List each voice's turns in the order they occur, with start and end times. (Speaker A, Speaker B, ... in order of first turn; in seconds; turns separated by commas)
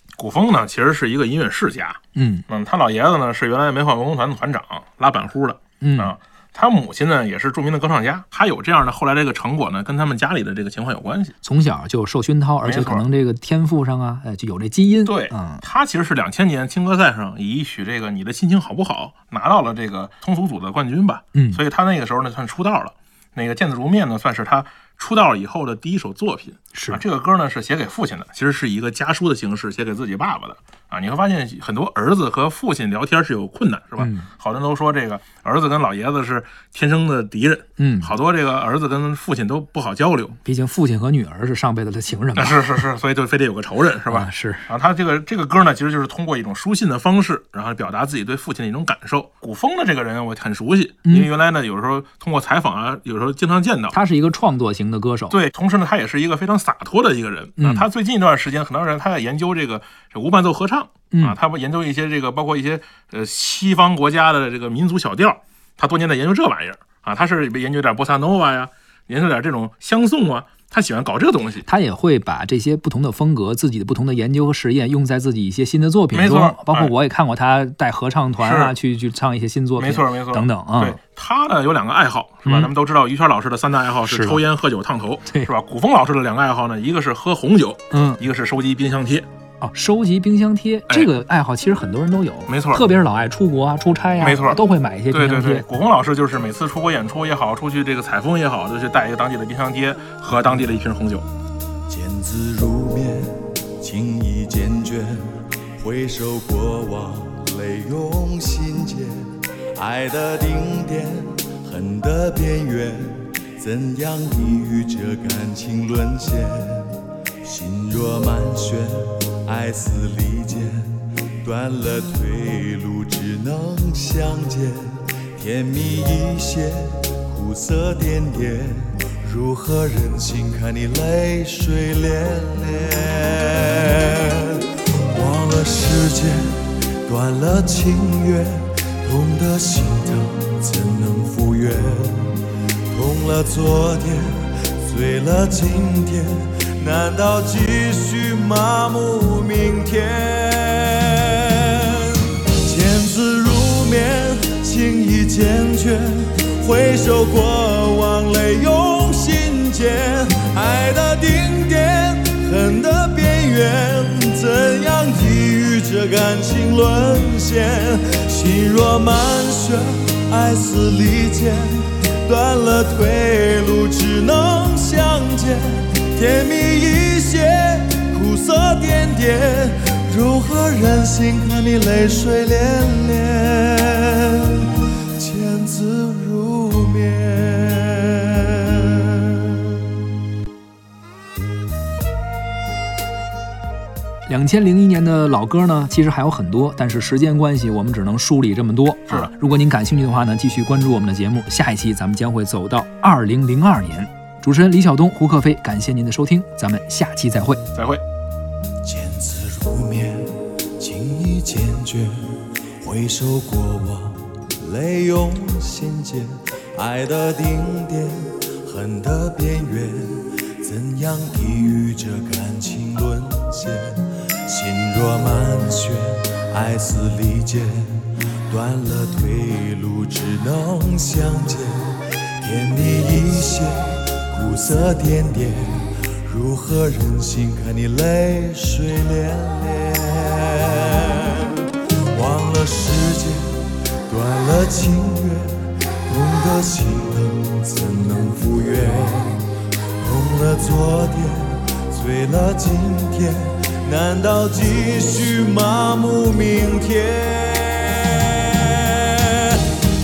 Speaker A: 0.2-11.3, Speaker B: 2.1-2.4, Speaker B: 5.8-6.1, Speaker B: 11.4-15.6, Speaker A: 12.6-13.1, Speaker A: 15.1-40.4, Speaker B: 21.3-21.6, Speaker B: 26.7-27.0, Speaker B: 34.0-34.3, Speaker B: 37.8-38.1, Speaker B: 40.4-42.8, Speaker A: 42.4-54.0, Speaker B: 44.1-44.7, Speaker B: 53.9-55.4, Speaker A: 55.3-71.7, Speaker B: 57.6-57.9, Speaker B: 61.1-61.4, Speaker B: 71.6-81.0, Speaker A: 76.1-76.9, Speaker A: 78.4-78.7, Speaker A: 79.8-89.2, Speaker B: 82.4-82.7, Speaker B: 84.0-84.4, Speaker B: 87.9-88.2, Speaker B: 89.6-95.7, Speaker A: 92.5-92.8, Speaker A: 94.2-101.3, Speaker C: 101.9-142.4, Speaker C: 142.9-189.5, Speaker B: 194.3-207.6, Speaker A: 207.7-208.0, Speaker C: 208.8-259.6